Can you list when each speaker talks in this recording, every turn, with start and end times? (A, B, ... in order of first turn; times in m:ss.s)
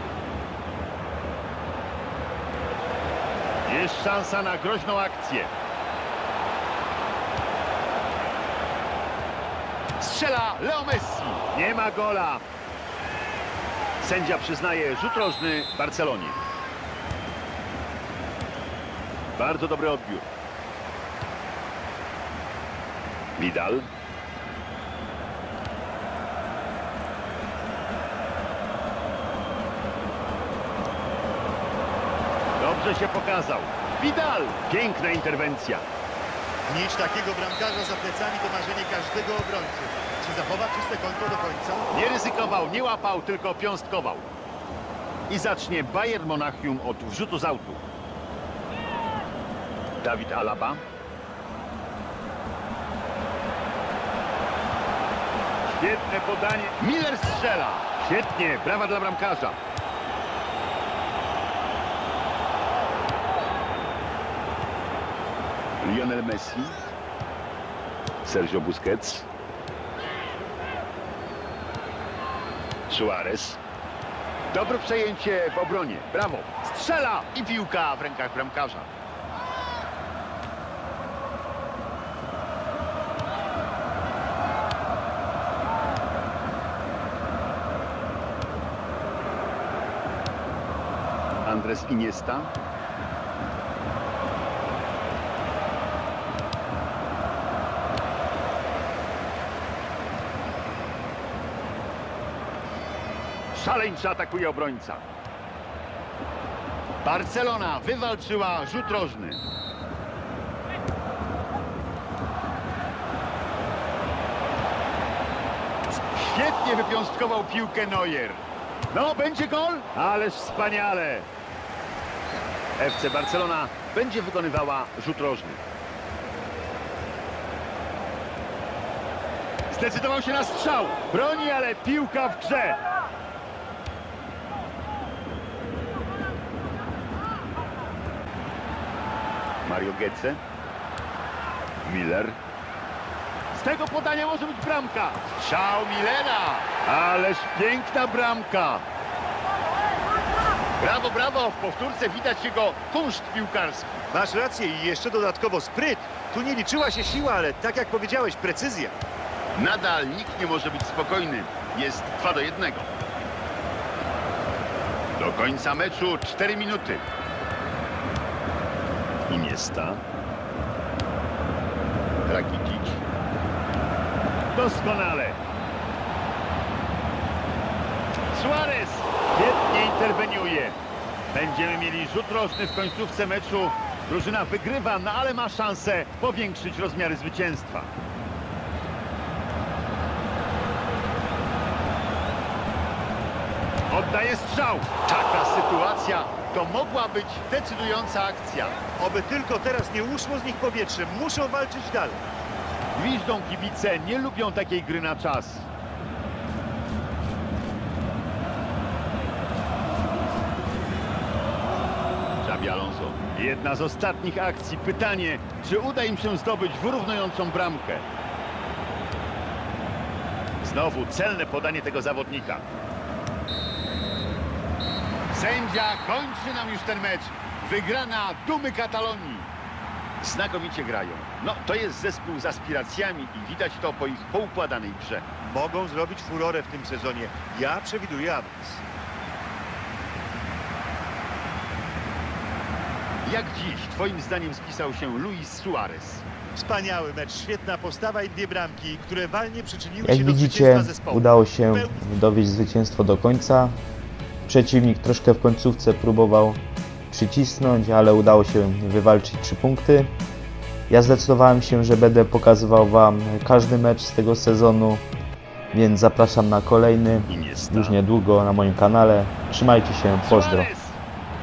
0:03.6-0:05.5 A
0:10.0-0:12.4 A
0:14.0-0:16.4 A
0:19.4-0:20.3 A
0:23.4-0:23.9 A
0:32.6-0:35.8 A
0:36.7-0:41.9 B
0:41.9-0:44.3 A
0:45.3-0:47.8 A
0:50.0-0:50.8 A
0:55.7-0:59.6 A
1:05.8-1:06.8 A
1:08.2-1:09.3 A
1:12.9-1:13.6 A
1:14.5-1:18.9 A
1:31.4-1:32.5 A
1:43.5-1:45.0 A
1:47.0-1:49.4 A
1:56.1-2:01.3 A
2:02.8-2:05.6 A
2:09.7-2:12.8 A
2:19.6-2:20.4 A
2:21.8-2:22.4 A
2:23.5-2:28.8 A
2:30.8-2:34.0 A
2:34.1-2:39.0 B
2:39.5-2:42.9 A
2:45.2-2:47.0 A
2:49.3-2:50.0 A
2:52.3-2:53.0 A
2:54.5-2:55.4 A
2:58.3-3:00.8 A
3:01.3-3:07.9 A
3:13.9-3:18.8 A
3:19.0-3:22.2 B
3:22.9-3:25.7 A
3:32.4-3:38.0 A
3:40.6-3:42.6 A
3:45.3-3:49.5 A
3:50.2-3:55.2 A
3:55.4-3:58.8 B
4:03.2-4:06.2 A
4:06.5-4:11.9 B
4:10.0-4:13.8 C
4:14.4-4:20.1 C
4:20.9-4:25.0 C
4:25.7-4:30.7 C
4:27.3-4:28.0 A
4:30.2-4:31.0 A